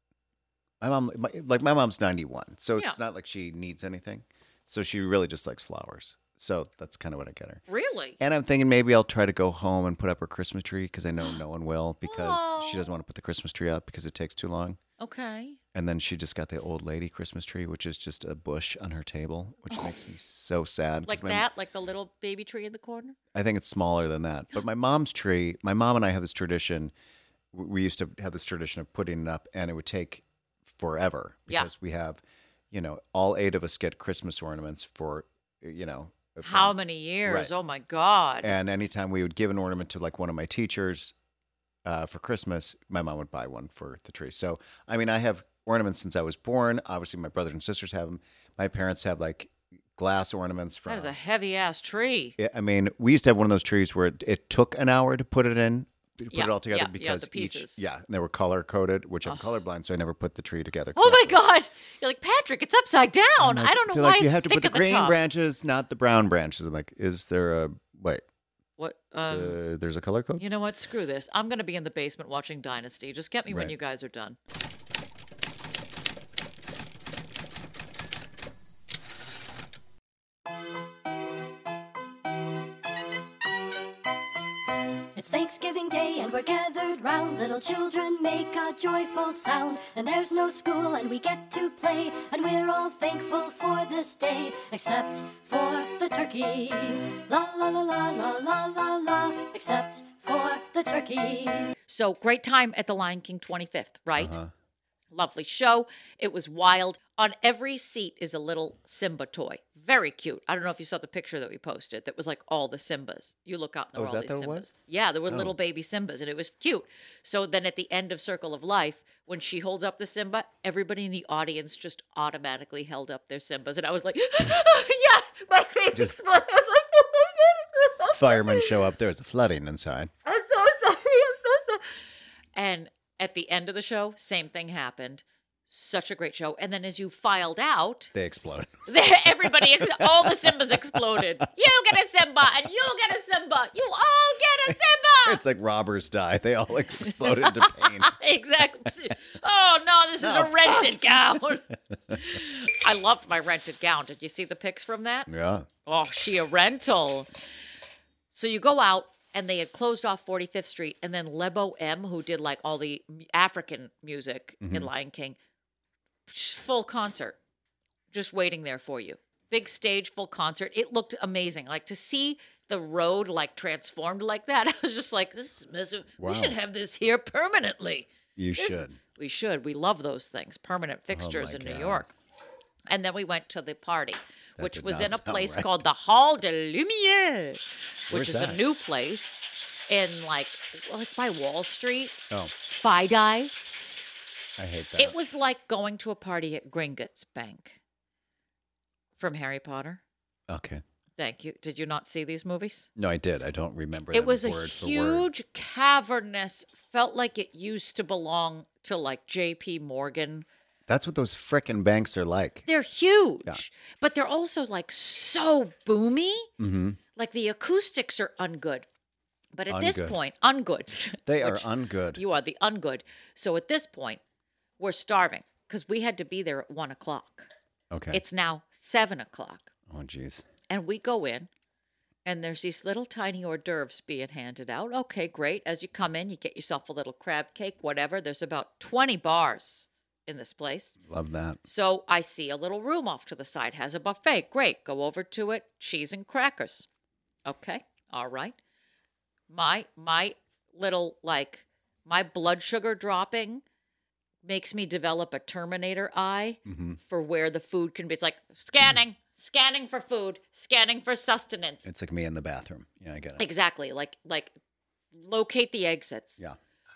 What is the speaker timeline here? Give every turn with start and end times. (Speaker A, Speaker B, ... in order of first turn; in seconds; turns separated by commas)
Speaker A: 0.8-7.6, Speaker B: 7.7-8.2, Speaker A: 8.2-14.8, Speaker B: 12.0-12.9, Speaker B: 15.0-15.6, Speaker A: 15.7-21.5, Speaker B: 21.1-23.2, Speaker A: 23.3-26.9, Speaker A: 27.5-37.5, Speaker B: 36.4-38.5, Speaker A: 38.4-41.1, Speaker A: 41.9-51.1, Speaker B: 50.9-52.4, Speaker A: 52.4-61.4, Speaker B: 56.3-57.8, Speaker B: 61.0-65.2, Speaker A: 63.4-68.2, Speaker B: 68.8-69.6, Speaker A: 69.3-70.4, Speaker B: 70.4-74.4, Speaker A: 73.5-73.7, Speaker C: 85.2-101.7, Speaker B: 101.9-104.4, Speaker A: 104.2-104.5, Speaker B: 105.1-128.8, Speaker A: 114.0-114.7, Speaker A: 115.3-115.5, Speaker A: 128.1-130.1, Speaker B: 130.2-131.8, Speaker B: 132.6-138.1, Speaker A: 138.1-141.3, Speaker B: 138.9-145.4, Speaker A: 144.7-148.2, Speaker B: 147.1-155.3, Speaker A: 150.2-151.0, Speaker A: 155.3-155.7, Speaker B: 155.9-157.3, Speaker B: 158.3-165.4, Speaker A: 164.6-164.9, Speaker B: 166.3-167.4, Speaker B: 168.1-182.1, Speaker A: 176.2-176.6, Speaker A: 178.4-179.0, Speaker A: 181.1-182.1, Speaker B: 182.9-193.6, Speaker A: 184.6-185.8, Speaker A: 188.1-188.6, Speaker A: 194.6-195.2, Speaker B: 195.0-197.8, Speaker B: 199.2-200.0, Speaker A: 200.5-200.8, Speaker B: 201.2-202.9, Speaker A: 203.0-205.3, Speaker B: 204.1-210.5, Speaker A: 210.9-212.7, Speaker B: 212.7-216.5, Speaker A: 216.6-217.0, Speaker B: 217.2-218.9, Speaker B: 219.5-224.2, Speaker A: 219.7-220.2, Speaker A: 221.3-222.2, Speaker B: 224.8-227.5, Speaker A: 227.9-228.2, Speaker B: 228.1-229.7, Speaker A: 229.9-230.5, Speaker B: 230.7-231.5, Speaker B: 232.2-241.0, Speaker A: 241.1-241.6, Speaker B: 241.7-246.9, Speaker B: 247.5-248.6, Speaker B: 249.5-253.6, Speaker B: 254.4-261.9, Speaker A: 256.6-257.0, Speaker A: 261.9-263.5, Speaker B: 263.4-264.6, Speaker B: 265.1-266.4